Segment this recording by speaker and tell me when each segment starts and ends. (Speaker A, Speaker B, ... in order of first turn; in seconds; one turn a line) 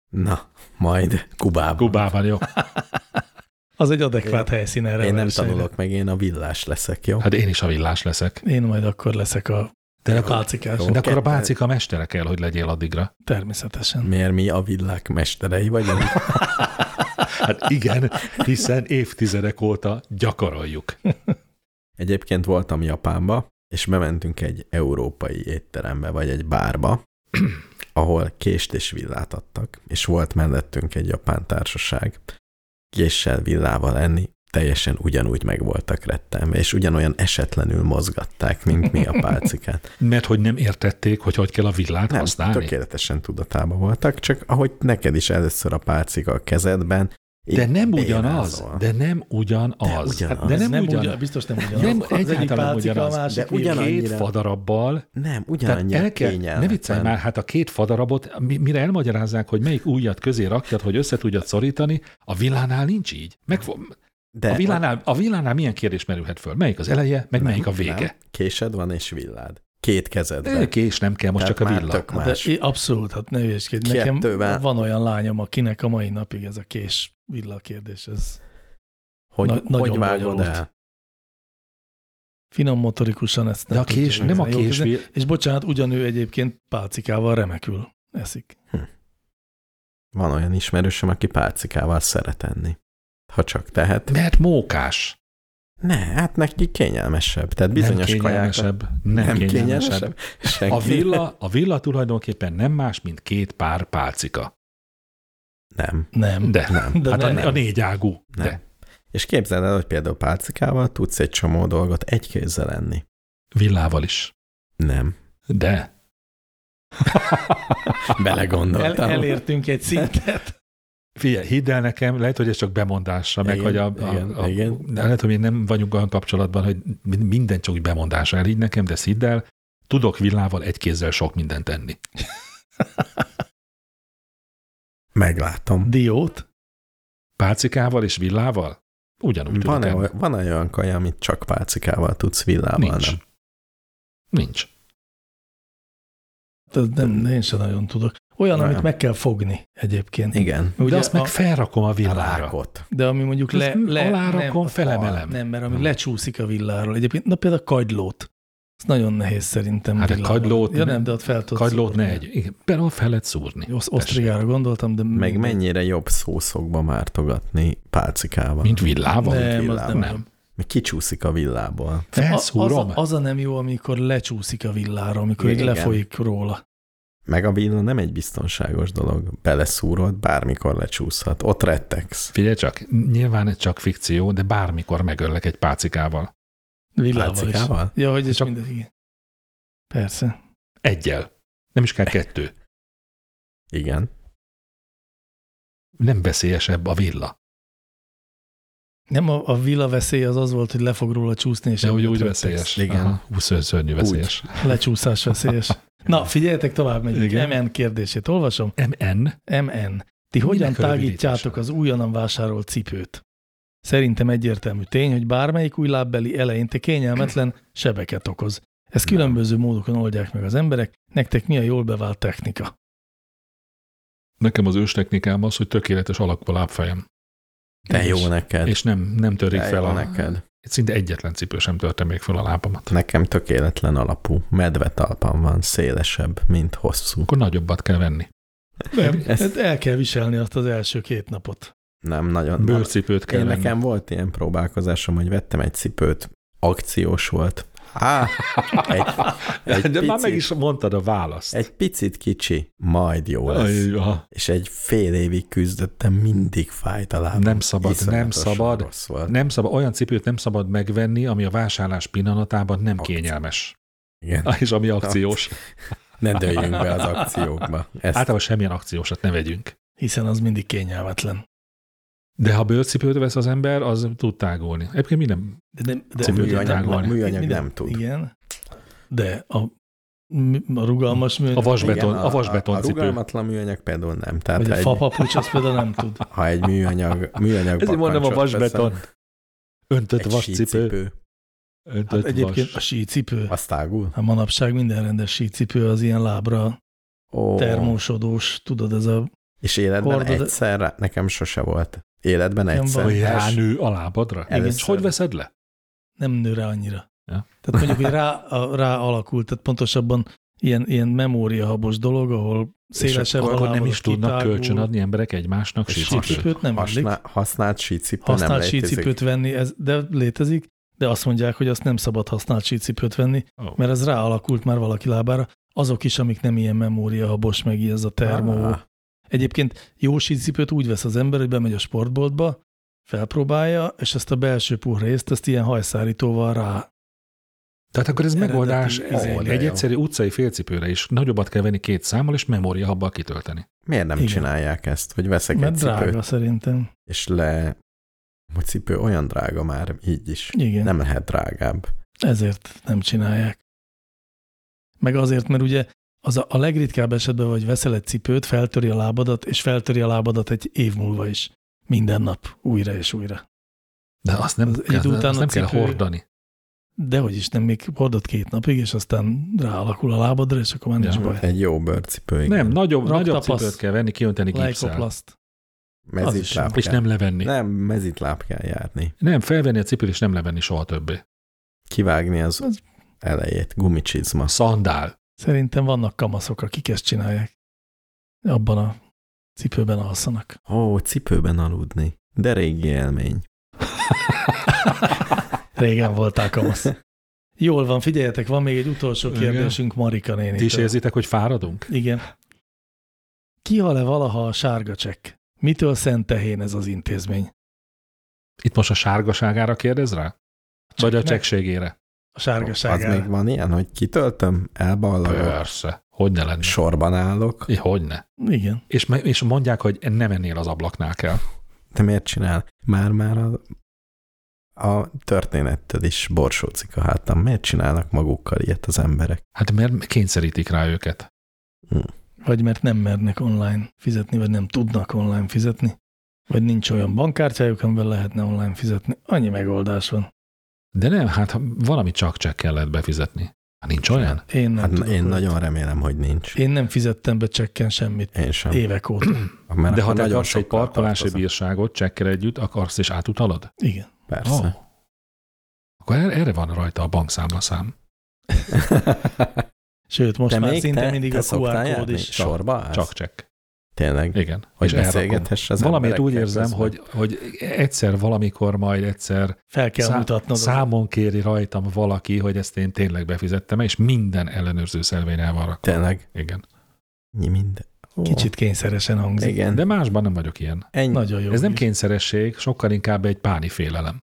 Speaker A: 0.1-2.1
Speaker B: 1.8-2.5
Speaker C: 3.8-5.7
Speaker A: 5.0-7.3
Speaker B: 7.2-8.4
Speaker C: 8.4-10.9
Speaker B: 10.1-13.1
Speaker A: 10.1-11.5
Speaker C: 13.2-14.1
Speaker A: 14.0-16.3
Speaker B: 16.2-21.0
Speaker A: 22.0-27.0
Speaker A: 27.9-32.3
Speaker A: 32.9-39.8
Speaker B: 40.0-42.7
Speaker A: 42.1-48.8
Speaker B: 47.5-51.2
Speaker A: 49.8-50.6
Speaker C: 50.4-53.9
Speaker B: 51.7-55.0
Speaker A: 53.3-54.3
Speaker A: 55.1-57.2
Speaker B: 55.6-64.0
Speaker A: 64.3-64.8
Speaker B: 64.5-68.1
Speaker A: 67.4-70.7
Speaker B: 70.4-72.1
Speaker A: 71.4-72.5
Speaker C: 72.2-78.4
Speaker A: 73.8-74.7
Speaker A: 79.3-80.7
Speaker C: 79.4-80.6
Speaker C: 82.5-88.6
Speaker B: 83.7-85.1
Speaker A: 90.1-92.8
Speaker A: 93.3-94.1
Speaker B: 94.1-95.2
Speaker A: 95.8-101.2
Speaker B: 97.8-100.1
Speaker B: 100.7-104.5
Speaker A: 105.8-106.1
Speaker C: 106.1-107.6
Speaker B: 106.4-108.6
Speaker A: 106.7-107.0
Speaker A: 108.3-108.6
Speaker A: 109.1-113.0
Speaker B: 113.5-114.3
Speaker A: 114.8-115.2
Speaker B: 115.5-115.9
Speaker B: 117.0-118.2
Speaker A: 118.1-119.4
Speaker C: 118.7-120.5
Speaker B: 121.2-132.0
Speaker A: 123.4-124.9
Speaker A: 135.2-135.9
Speaker C: 135.8-136.4
Speaker B: 137.4-140.1
Speaker A: 139.5-143.2
Speaker B: 142.8-143.2
Speaker B: 144.3-144.7
Speaker C: 146.7-151.3
Speaker A: 148.5-148.9
Speaker A: 150.3-150.8
Speaker B: 150.8-152.5
Speaker A: 152.0-152.8
Speaker C: 152.9-158.3
Speaker B: 153.5-155.4
Speaker C: 158.8-162.2
Speaker B: 160.0-164.3
Speaker C: 163.7-165.6
Speaker A: 165.1-172.1
Speaker B: 168.6-170.2
Speaker C: 169.2-170.2
Speaker C: 172.1-176.6
Speaker B: 172.2-173.0
Speaker A: 175.4-176.0
Speaker A: 177.3-182.3
Speaker B: 182.3-186.3
Speaker C: 187.0-188.9
Speaker A: 187.1-187.9
Speaker C: 189.9-190.4
Speaker B: 190.8-192.5
Speaker A: 193.7-194.1
Speaker B: 196.0-197.3
Speaker C: 199.1-202.7
Speaker B: 201.8-204.8
Speaker A: 202.8-203.2
Speaker A: 204.0-204.5
Speaker C: 204.6-208.7
Speaker B: 207.1-207.6
Speaker B: 208.8-209.4
Speaker C: 209.5-213.2
Speaker B: 210.4-211.6
Speaker C: 213.8-222.7
Speaker A: 219.0-219.4
Speaker B: 224.4-227.0
Speaker A: 227.9-228.8
Speaker B: 227.9-232.9
Speaker A: 229.5-230.4
Speaker A: 232.9-237.3
Speaker B: 237.3-238.3
Speaker C: 238.9-241.7
Speaker A: 239.2-239.6
Speaker A: 242.0-250.5
Speaker B: 242.6-243.8
Speaker B: 248.4-251.6
Speaker A: 251.5-259.4
Speaker B: 253.5-254.2
Speaker B: 257.3-263.8
Speaker A: 263.0-263.3
Speaker A: 264.2-265.4
Speaker B: 264.4-265.6
Speaker A: 266.2-268.3
Speaker B: 268.1-269.7
Speaker C: 270.0-271.4
Speaker B: 272.4-275.6
Speaker C: 275.8-278.3
Speaker B: 276.2-277.1
Speaker A: 276.2-278.0
Speaker C: 279.1-279.7
Speaker C: 280.3-282.1
Speaker B: 281.6-283.2
Speaker A: 281.8-285.1
Speaker C: 284.6-286.2
Speaker A: 286.3-289.0
Speaker B: 287.8-289.0
Speaker B: 289.9-290.9
Speaker A: 290.2-291.1
Speaker B: 291.9-292.8
Speaker C: 292.1-293.5
Speaker A: 293.5-294.1
Speaker C: 294.1-296.8
Speaker A: 297.3-298.0
Speaker C: 297.6-299.3
Speaker A: 299.6-303.6
Speaker C: 300.0-300.5
Speaker C: 302.7-303.4
Speaker B: 303.0-305.5
Speaker A: 304.5-305.1
Speaker C: 304.5-304.8
Speaker C: 306.2-307.1
Speaker C: 307.6-314.9
Speaker A: 313.0-313.6
Speaker B: 313.4-316.5
Speaker A: 315.9-319.1
Speaker C: 316.0-317.1
Speaker C: 318.2-328.8
Speaker A: 328.2-328.8
Speaker C: 329.3-336.9
Speaker B: 337.9-343.6
Speaker C: 338.4-339.6
Speaker A: 339.1-339.9
Speaker A: 343.9-346.2
Speaker C: 344.2-344.5
Speaker C: 345.5-346.9
Speaker A: 347.1-347.8
Speaker A: 348.5-351.9
Speaker C: 350.5-350.9
Speaker C: 352.2-353.6
Speaker C: 355.0-363.4
Speaker B: 364.2-366.2
Speaker C: 364.7-366.0
Speaker C: 367.0-371.4
Speaker A: 371.2-372.8
Speaker B: 372.4-375.1
Speaker C: 373.1-373.8
Speaker C: 374.5-375.3
Speaker A: 376.1-379.1
Speaker C: 376.2-376.8
Speaker B: 376.8-377.5
Speaker B: 379.2-381.2
Speaker A: 381.9-382.7
Speaker A: 383.2-384.5
Speaker B: 384.5-385.1
Speaker C: 385.4-387.5
Speaker C: 388.4-389.0
Speaker C: 389.6-390.6
Speaker A: 390.7-393.4
Speaker C: 395.8-396.9
Speaker C: 397.6-400.9
Speaker B: 399.3-399.8
Speaker B: 400.6-401.9
Speaker C: 401.9-402.2
Speaker C: 403.6-407.5
Speaker B: 408.6-410.3
Speaker C: 411.0-411.4
Speaker B: 411.0-411.9
Speaker C: 412.4-413.3
Speaker A: 412.6-415.6
Speaker B: 415.2-416.8
Speaker A: 416.6-417.7
Speaker B: 417.7-418.2
Speaker C: 418.4-418.8
Speaker B: 418.9-421.4
Speaker A: 421.9-423.6
Speaker A: 424.8-429.4
Speaker B: 429.6-431.3
Speaker C: 432.4-436.0
Speaker C: 436.5-440.3
Speaker B: 440.9-444.4
Speaker A: 444.1-446.6
Speaker C: 444.5-445.5
Speaker C: 446.6-449.5
Speaker A: 448.4-448.8
Speaker A: 449.7-451.4
Speaker B: 449.9-453.7
Speaker C: 453.8-454.1
Speaker A: 454.3-454.7
Speaker B: 454.4-454.7
Speaker B: 456.0-457.9
Speaker A: 458.7-459.6
Speaker C: 460.1-462.3
Speaker A: 460.5-463.1
Speaker B: 462.4-463.4
Speaker A: 464.0-467.0
Speaker B: 464.3-476.6
Speaker C: 469.7-470.8
Speaker A: 475.8-476.2
Speaker A: 477.3-478.5
Speaker C: 478.2-479.6
Speaker A: 479.4-479.8
Speaker B: 479.7-480.9
Speaker A: 480.9-481.2
Speaker C: 481.1-481.8
Speaker B: 481.5-484.2